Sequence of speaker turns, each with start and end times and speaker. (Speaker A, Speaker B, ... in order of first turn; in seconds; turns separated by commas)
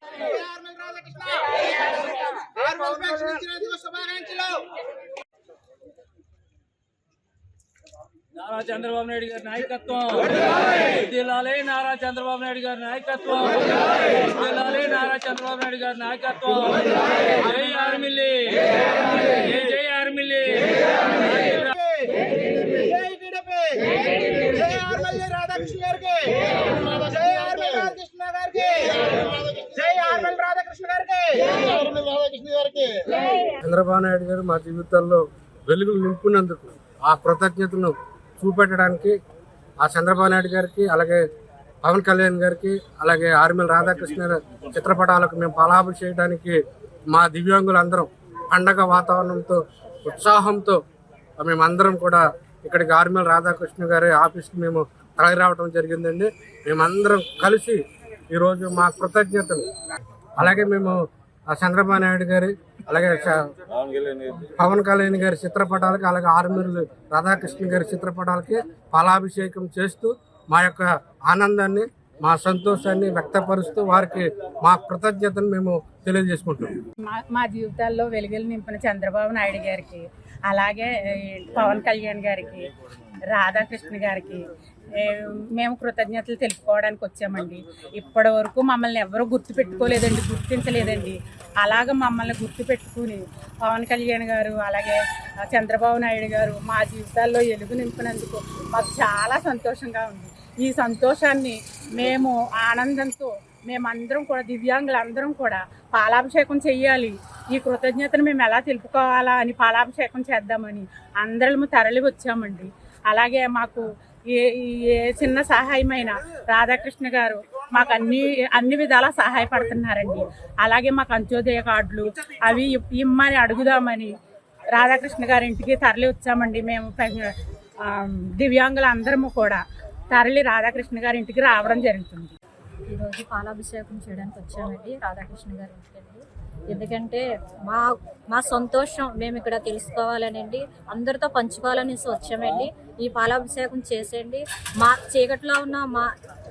Speaker A: 0.2-1.6, Speaker A: 2.3-4.6, Speaker B: 8.3-21.7, Speaker A: 22.7-32.5, Speaker C: 33.6-39.1, Speaker C: 39.8-41.2, Speaker C: 41.8-46.6, Speaker C: 47.1-50.8, Speaker C: 51.4-59.6, Speaker C: 60.4-61.0, Speaker C: 61.5-63.4, Speaker C: 64.3-76.8, Speaker D: 77.0-82.7, Speaker D: 83.3-84.4, Speaker D: 84.9-124.1, Speaker D: 124.7-132.3, Speaker E: 132.9-146.1